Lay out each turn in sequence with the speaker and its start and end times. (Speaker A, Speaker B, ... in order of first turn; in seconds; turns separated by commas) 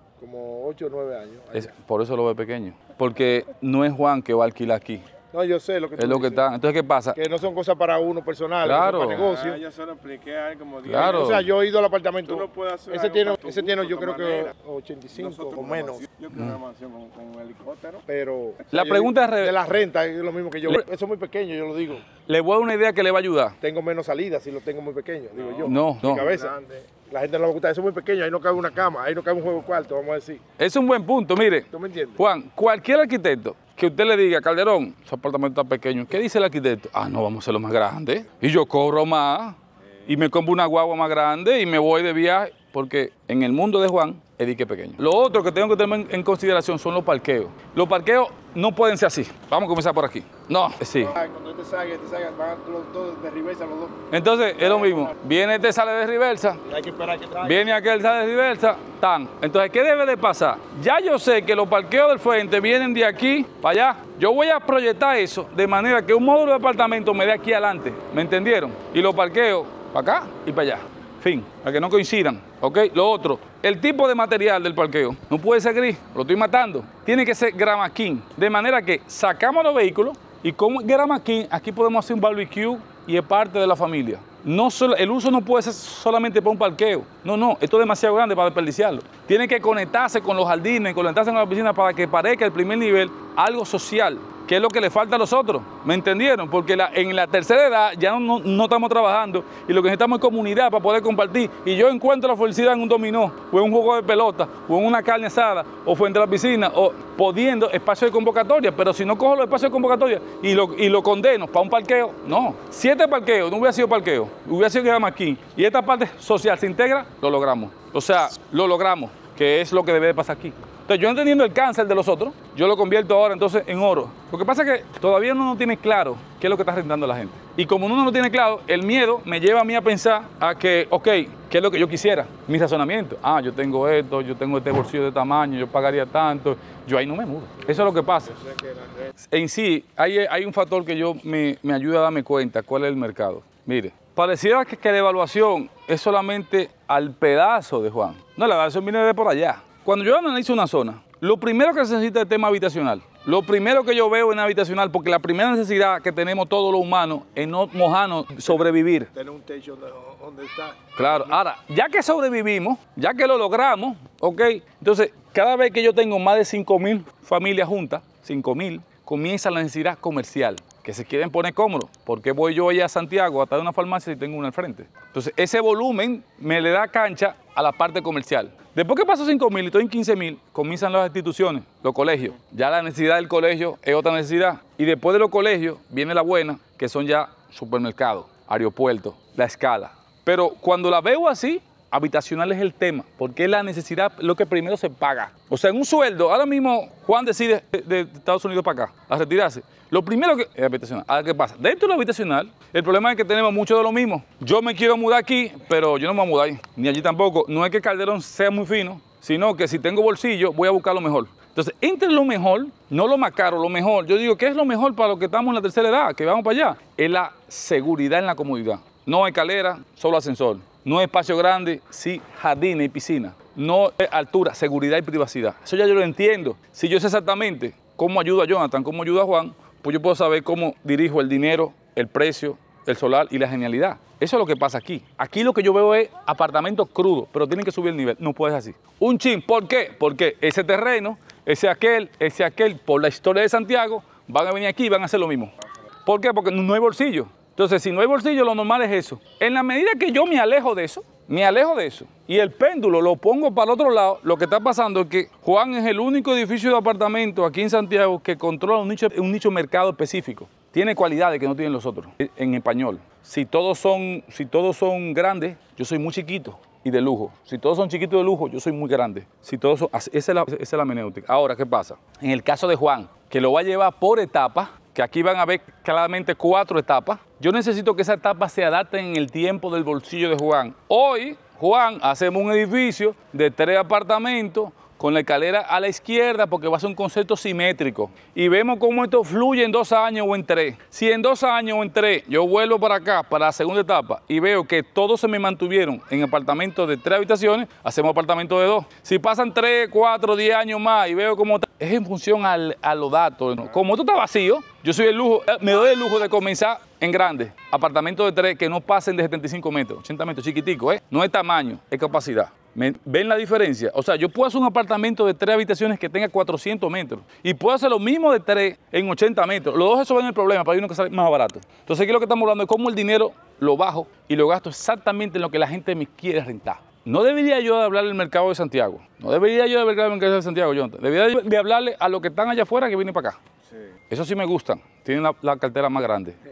Speaker A: 0.2-1.7, Speaker B: 1.5-5.0, Speaker A: 5.3-6.5, Speaker B: 6.0-7.2, Speaker A: 7.2-9.6, Speaker B: 8.6-9.3, Speaker C: 9.2-11.3, Speaker B: 10.9-11.5, Speaker A: 11.0-16.1, Speaker C: 12.3-14.5, Speaker C: 15.4-18.0, Speaker A: 18.1-22.1, Speaker B: 18.7-19.6, Speaker B: 22.3-23.6, Speaker A: 23.6-30.4, Speaker B: 25.6-26.3, Speaker B: 30.6-31.7, Speaker A: 31.7-32.2, Speaker B: 32.2-51.1, Speaker A: 51.0-55.1, Speaker B: 54.1-56.6, Speaker A: 56.7-57.8, Speaker B: 57.4-138.4, Speaker B: 139.2-159.1, Speaker A: 158.5-161.4, Speaker B: 161.0-245.5, Speaker B: 246.1-333.4, Speaker B: 334.1-336.4